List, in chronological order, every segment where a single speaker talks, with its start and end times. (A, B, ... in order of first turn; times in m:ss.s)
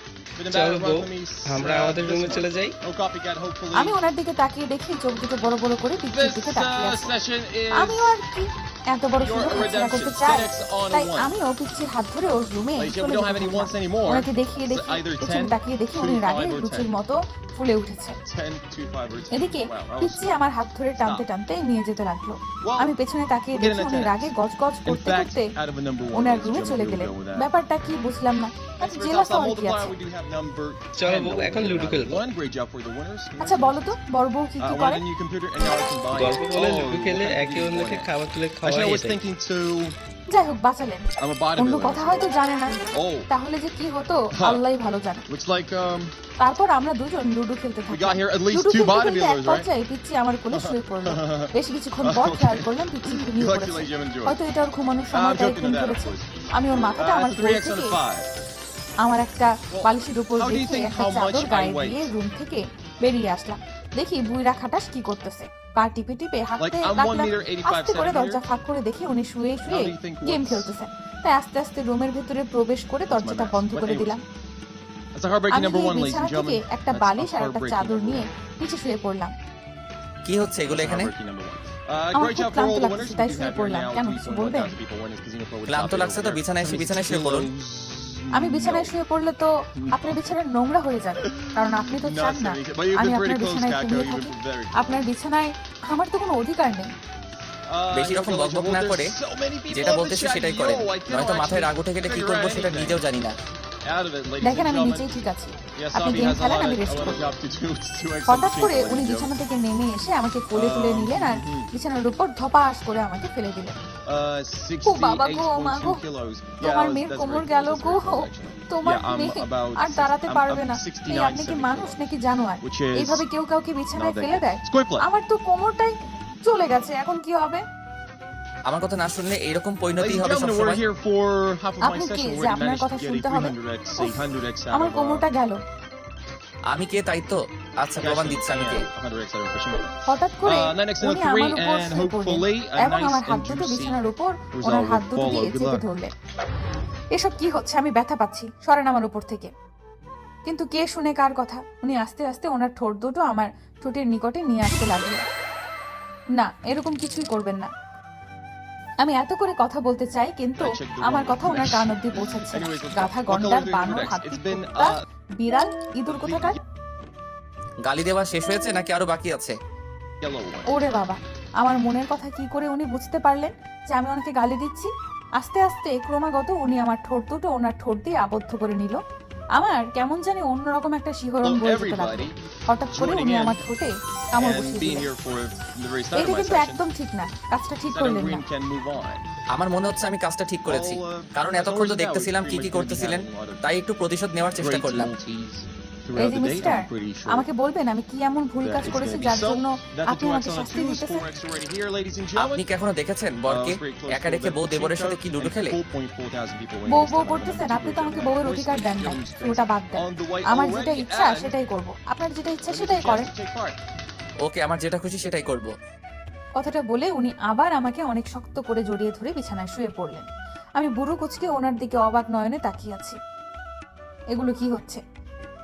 0:00.4-0:04.0 A
0:00.5-0:02.7 B
0:03.8-0:07.1 C
0:06.0-0:08.2 A
0:07.8-0:18.2 C
0:09.2-0:11.3 A
0:12.8-0:16.9 A
0:18.2-0:20.4 A
0:19.3-0:25.5 C
0:20.9-0:21.2 A
0:22.6-0:22.9 A
0:23.5-0:24.3 A
0:24.8-0:27.5 A
0:26.1-0:29.9 C
0:28.8-0:34.0 A
0:31.0-0:32.2 B
0:33.4-0:35.0 C
0:34.6-0:38.1 A
0:36.1-0:39.2 B
0:38.6-0:39.9 A
0:40.3-0:41.0 C
0:41.2-0:42.3 A
0:41.6-0:42.8 C
0:42.9-0:43.3 A
0:43.3-0:45.2 C
0:44.3-0:44.6 A
0:45.3-0:46.1 A
0:46.4-0:58.0 C
0:47.9-0:49.7 A
0:50.5-0:51.5 A
0:52.0-0:54.4 A
0:55.1-0:56.3 A
0:57.0-0:58.3 A
0:59.0-1:14.2 C
0:59.7-1:02.1 A
1:06.6-1:08.4 A
1:09.6-1:10.7 A
1:13.1-1:14.2 A
1:15.1-1:18.2 A
1:15.5-1:19.3 C
1:20.2-1:21.1 D
1:20.7-1:28.9 A
1:22.1-1:24.7 C
1:25.7-1:27.5 D
1:28.4-1:36.9 C
1:29.9-1:30.2 A
1:32.0-1:35.0 A
1:37.7-1:43.0 A
1:37.9-1:39.1 D
1:39.7-1:43.3 D
1:43.8-1:45.2 A
1:44.4-1:47.2 C
1:45.8-1:49.3 A
1:48.3-1:53.7 C
1:50.5-1:51.7 A
1:54.1-2:02.0 A
1:54.8-1:56.0 C
1:56.6-2:05.9 C
2:02.6-2:03.2 A
2:03.9-2:05.0 A
2:06.4-2:07.6 C
2:08.7-2:10.8 D
2:10.0-2:15.2 A
2:11.8-2:14.2 C
2:14.7-2:15.6 C
2:16.7-2:18.8 D
2:18.0-2:19.9 A
2:20.1-2:26.1 C
2:20.4-2:24.0 A
2:24.5-2:25.8 A
2:27.2-2:29.5 C
2:30.4-2:35.2 C
2:36.4-2:37.7 C
2:39.0-2:46.6 C
2:40.6-2:45.0 A
2:46.1-2:46.6 A
2:47.8-2:49.5 D
2:50.2-2:50.9 A
2:50.7-2:59.0 C
2:59.6-3:05.1 C
3:01.4-3:02.3 A
3:02.9-3:03.6 A
3:04.4-3:06.8 A
3:06.1-3:08.4 C
3:07.9-3:09.2 A
3:09.5-3:15.1 D
3:10.6-3:13.6 A
3:14.6-3:17.4 A
3:16.2-3:21.2 C
3:18.6-3:22.6 A
3:22.4-3:25.8 D
3:23.5-3:31.5 A
3:26.9-3:33.3 C
3:32.6-3:33.8 A
3:34.4-3:35.7 D
3:36.6-3:43.2 C
3:44.3-3:45.0 C